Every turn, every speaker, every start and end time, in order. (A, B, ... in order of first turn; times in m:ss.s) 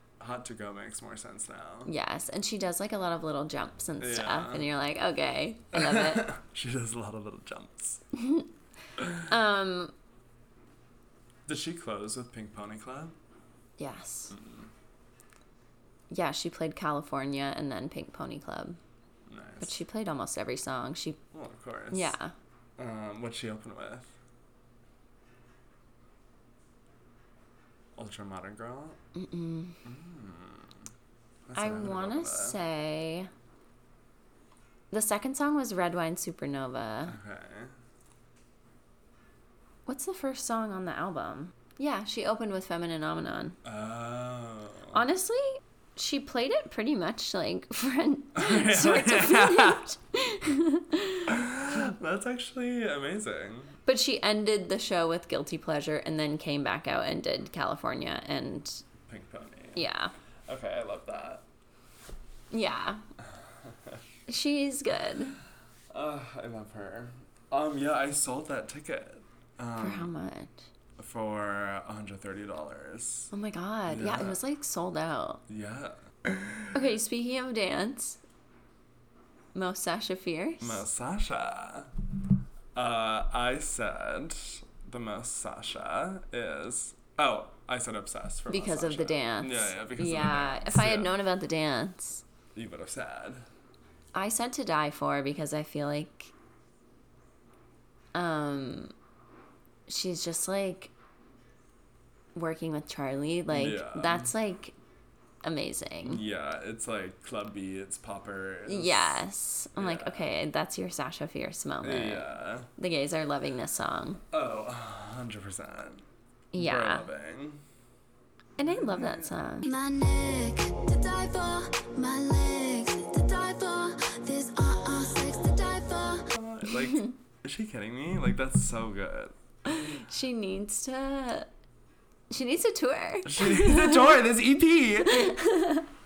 0:00.2-0:01.9 A
0:01.8-0:06.3 B
0:04.0-0:04.7 A
0:05.7-0:08.0 A
0:08.1-0:08.5 B
0:09.0-0:09.3 A
0:09.2-0:09.9 B
0:11.5-0:13.1 A
0:13.8-0:14.3 B
0:14.3-0:14.7 A
0:16.1-0:18.8 B
0:19.3-0:19.8 A
0:19.6-0:21.2 B
0:21.3-0:22.2 A
0:21.9-0:22.3 B
0:22.8-0:24.1 A
0:28.0-0:29.0 A
0:29.1-0:29.8 B
0:29.8-0:30.8 A
0:31.5-0:32.6 A
0:31.6-0:33.3 B
0:34.9-0:37.2 B
0:37.0-0:37.7 A
0:39.8-0:43.6 B
0:43.6-0:45.0 A
0:44.9-0:51.9 B
0:48.3-0:49.9 A
0:51.3-0:53.8 A
0:53.8-0:58.8 B
0:59.0-0:59.9 A
0:59.8-1:00.1 B
1:00.5-1:01.4 A
1:02.5-1:03.0 B
1:03.6-1:04.0 A
1:04.3-1:05.4 B
1:05.9-1:10.1 A
1:09.8-1:10.6 B
1:11.0-1:13.3 A
1:13.3-1:15.4 B
1:13.9-1:14.4 A
1:15.5-1:16.8 A
1:16.7-1:18.2 B
1:19.5-1:20.8 B
1:20.6-1:21.9 A
1:22.7-1:31.1 A
1:28.5-1:32.2 B
1:32.5-1:33.5 A
1:34.1-1:36.3 B
1:38.1-1:38.9 B
1:39.9-1:40.9 B
1:42.3-1:44.8 B
1:43.5-1:44.3 A
1:45.4-1:46.2 B
1:46.0-1:50.3 A
1:48.6-1:54.2 B
1:51.8-1:52.7 A
1:54.3-1:56.0 A
1:56.5-1:57.1 B
1:56.6-1:57.6 A
1:58.6-1:59.7 B
1:58.6-1:59.3 A
1:59.6-2:06.3 C
2:06.3-2:09.9 A
2:06.7-2:07.1 B
2:09.6-2:11.5 B
2:12.3-2:14.2 B
2:13.2-2:15.3 A
2:15.0-2:15.9 B